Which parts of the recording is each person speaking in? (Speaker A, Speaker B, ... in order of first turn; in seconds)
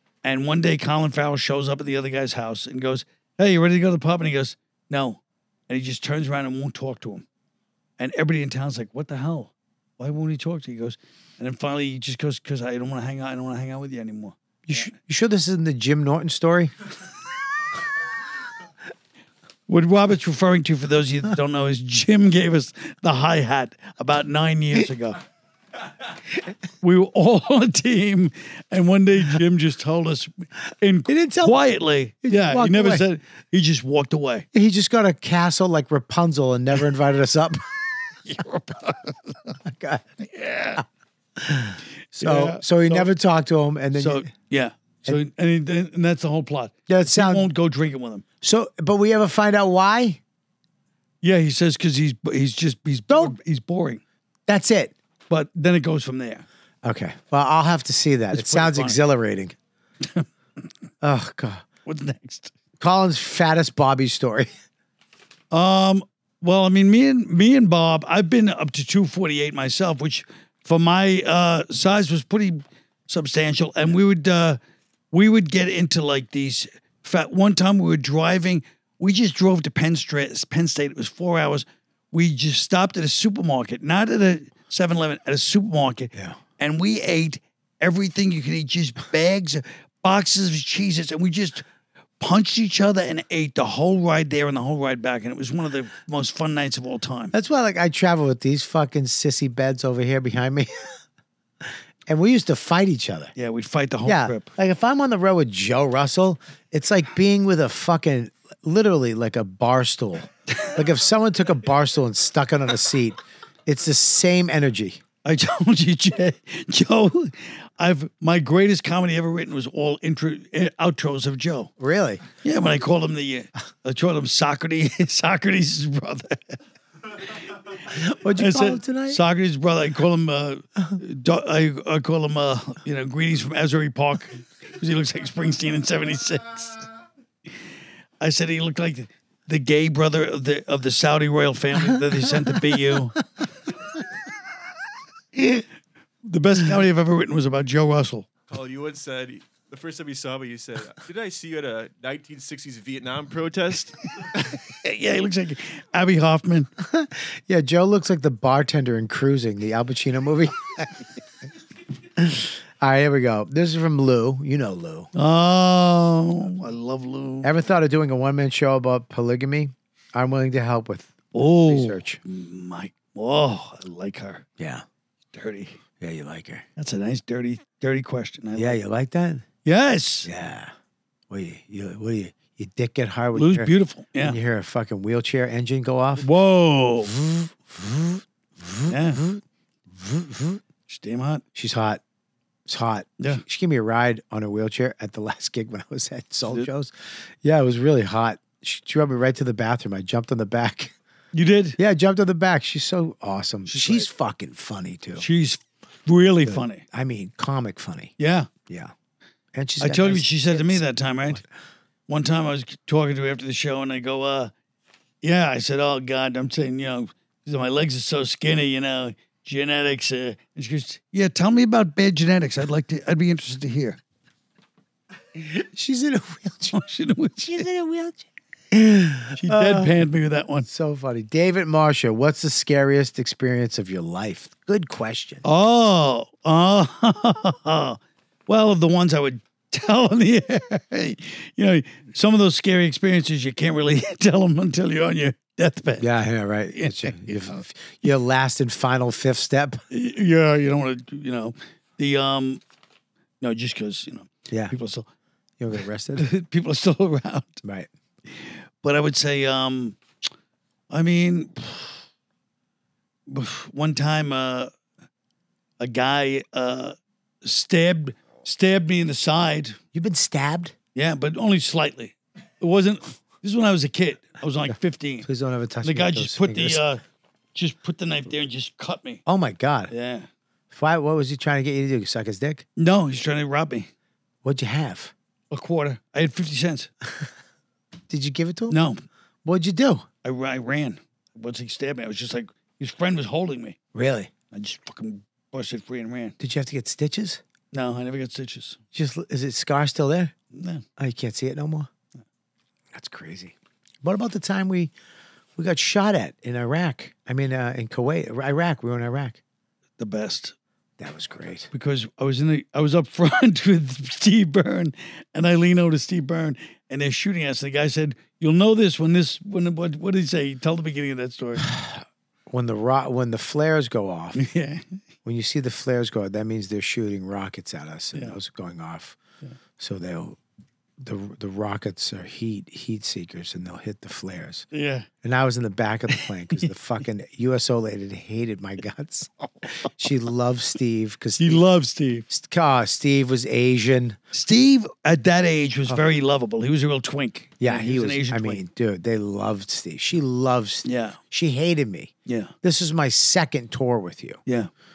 Speaker A: 0.2-7.2, 8.0-14.8, 19.7-25.2, 26.8-34.5, 38.2-39.5, 40.2-40.8, 42.2-43.1, 44.0-48.2, 51.2-54.0, 55.3-56.4, 58.3-59.0, 61.9-62.5, 65.5-74.6, 75.1-91.6, 92.2-97.3, 103.3-104.5, 115.2-121.7, 122.4-126.6, 128.3-136.8, 138.2-143.2, 146.2-148.2, 154.4-156.7, 165.1-167.5, 171.3-174.4, 175.3-175.8, 176.8-178.8, 179.6-180.3, 183.3-184.4, 186.2-187.2, 188.9-189.2, 190.9-191.4, 201.3-201.8, 203.7-204.1, 205.2-206.8, 208.2-208.5, 209.8-211.4, 212.1-214.5, 215.2-224.0, 226.7-227.7, 229.3-230.7, 235.4-246.1, 246.7-247.6, 249.9-252.6, 253.4-255.1, 256.2-257.6, 258.8-260.0, 260.9-261.9, 263.3-264.7, 265.8-269.8, 270.9-275.3, 275.8-277.0, 277.5-279.2, 279.9-280.3, 282.8-283.9, 285.5-286.9, 288.7-289.0, 290.2-293.8, 294.5-296.4, 297.7-298.8, 300.5-300.8, 310.0-310.5, 311.7-321.7, 324.4-324.8, 334.7-335.1, 336.1-336.6, 341.4-342.2, 344.3-348.6, 350.8-351.2, 352.2-352.5
Speaker B: 14.7-16.7, 31.1-31.6, 32.2-33.0, 34.5-37.6, 39.6-40.0, 41.4-44.3, 46.9-47.5, 48.4-50.2, 53.1-53.3, 54.5-54.9, 56.8-59.5, 61.0-61.6, 62.8-64.5, 97.3-100.9, 102.1-103.3, 104.0-115.0, 121.8-122.2, 127.9-129.2, 156.8-160.9, 162.2-165.1, 167.4-172.2, 174.6-174.8, 176.0-176.6, 178.6-179.4, 180.2-180.7, 181.3-186.3, 187.0-190.6, 191.5-192.0, 192.7-200.9, 201.8-205.2, 206.4-208.1, 208.7-208.9, 209.5-211.4, 225.3-226.8, 227.4-229.9, 230.7-235.4, 246.0-249.8, 255.6-256.3, 257.6-257.9, 269.9-270.7, 275.2-276.8, 279.2-279.9, 280.7-282.6, 284.4-285.1, 288.1-288.8, 289.4-290.1, 293.9-294.3, 296.4-297.4, 298.9-300.3, 301.0-301.9, 302.9-304.9, 305.6-309.4, 311.0-311.7, 321.7-324.4, 325.2-329.2, 329.8-330.4, 331.0-334.6, 335.2-341.6, 342.3-344.2, 347.6-352.1, 352.6-354.4
Speaker C: 148.5-153.9